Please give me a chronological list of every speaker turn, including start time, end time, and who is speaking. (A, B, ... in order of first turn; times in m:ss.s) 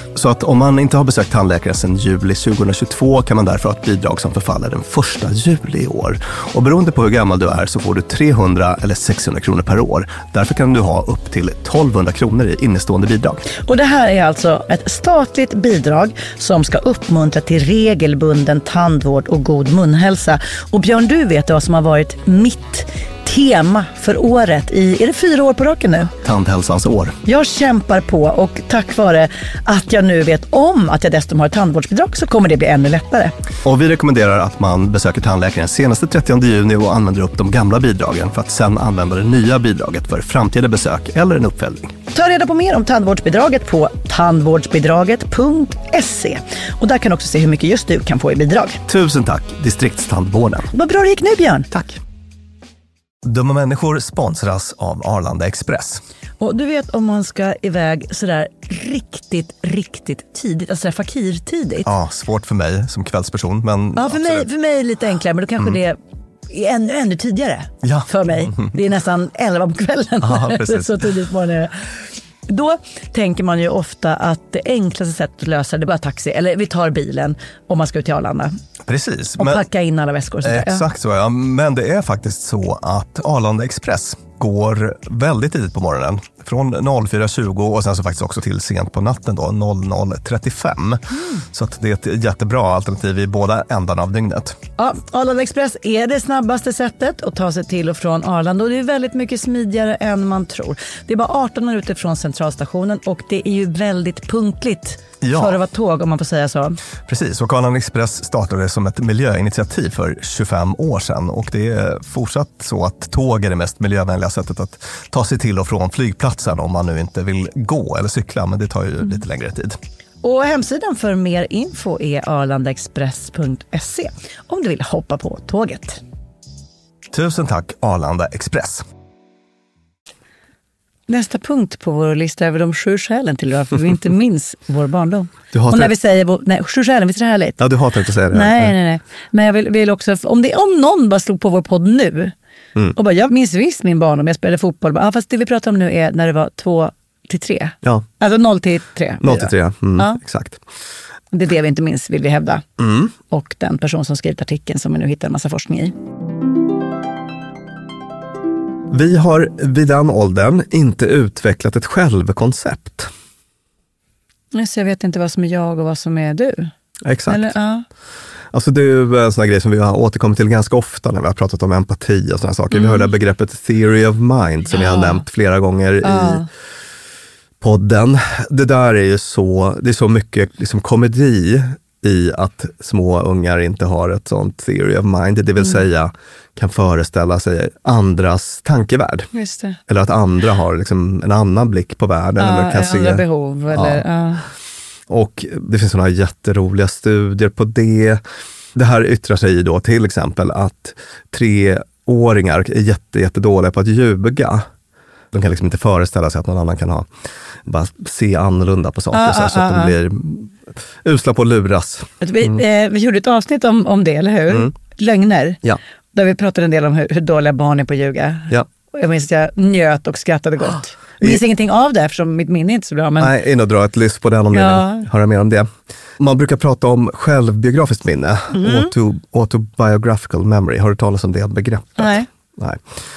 0:00.1-0:13.4 A
0:13.6-0:26.1 B
0:26.2-0:27.2 A
0:27.2-0:33.3 B
0:33.6-0:41.9 A
0:42.1-0:48.8 B
0:48.9-0:50.7 A
0:50.7-0:51.7 B
0:51.7-0:52.0 A
0:53.2-0:56.0 A
0:56.4-1:01.9 B
1:01.8-1:04.5 A
1:04.0-1:06.0 B
1:06.5-1:12.0 B
1:07.8-1:08.7 A
1:10.2-1:11.0 A
1:12.5-1:18.5 B
1:18.9-1:19.6 A
1:19.4-1:20.8 B
1:20.4-1:34.6 A
1:31.1-1:31.4 B
1:34.8-1:46.8 B
1:45.2-1:45.6 A
1:47.0-1:59.8 A
2:00.2-2:06.0 B
2:07.1-2:08.8 A
2:11.1-2:17.6 B
2:15.5-2:15.9 A
2:17.6-2:18.7 A
2:18.3-2:22.3 B
2:23.0-2:30.2 B
2:29.2-2:30.6 A
2:31.3-2:32.6 B
2:32.8-2:33.1 A
2:33.3-2:35.9 B
2:38.9-2:43.1 A
2:44.5-2:46.7 B
2:47.0-2:47.5 A
2:47.3-2:47.8 B
2:48.5-2:56.4 A
2:52.7-2:53.1 B
2:54.7-2:55.2 B
2:56.0-2:56.5 B
2:57.6-3:09.3 A
3:05.6-3:05.8 B
3:09.3-3:09.8 B
3:09.9-3:14.0 A
3:12.4-3:14.4 B
3:15.1-3:18.2 A
3:18.7-3:24.7 A
3:25.3-3:27.1 A
3:27.6-3:32.6 A
3:29.1-3:29.9 B
3:32.2-3:35.6 B
3:36.1-3:43.3 B
3:43.2-3:52.8 A
3:44.5-3:45.0 B
3:48.5-3:48.9 B
3:52.0-3:52.3 B